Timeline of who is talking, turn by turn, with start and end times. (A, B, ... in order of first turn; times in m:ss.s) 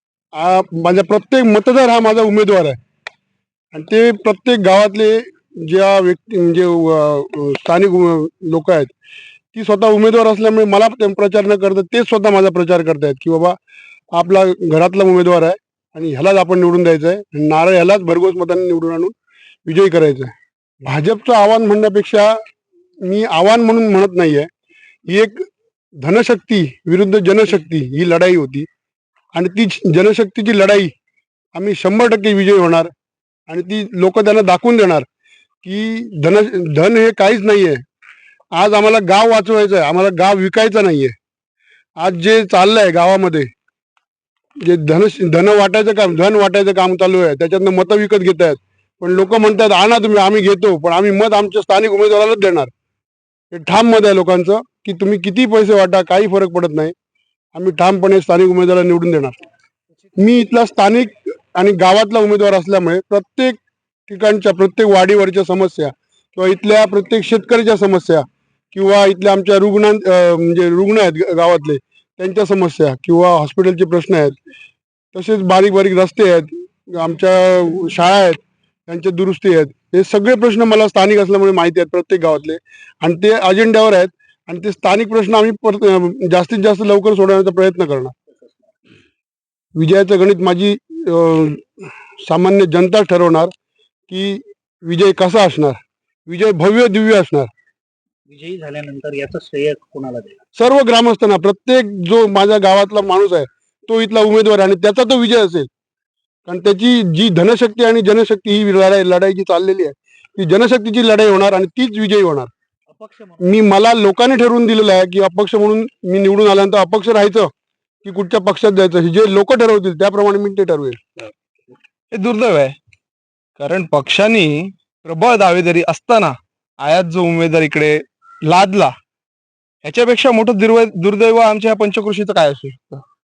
0:00.4-0:02.8 A
0:03.7-0:08.9 A
0:09.5-0:13.6 A
0:14.2-0:19.1 A
0:19.7-0:20.3 A
0:20.8-0:22.4 A
0:23.0-0:24.5 A
0:25.1-0:25.4 A
0:26.0-0:28.7 A
0:29.4-0:30.9 A
0:31.6-0:32.9 A
0:33.5-0:35.1 A
0:35.6-0:37.8 A
0:38.6-0:41.1 A
0:42.0-0:43.5 A
0:44.6-0:52.7 A
0:53.5-0:56.9 A
0:57.6-0:59.4 A
1:00.2-1:14.4 A
1:15.1-1:28.1 A
1:29.8-1:31.7 A
1:32.3-1:33.5 A
1:34.1-1:37.5 A
1:38.3-1:40.4 B
1:40.6-1:45.7 A
1:46.5-1:52.5 A
1:52.9-1:53.5 B
1:53.4-1:57.5 A
1:58.0-2:01.0 A
2:02.1-2:02.7 C
2:03.6-2:08.9 C
2:09.8-2:13.0 C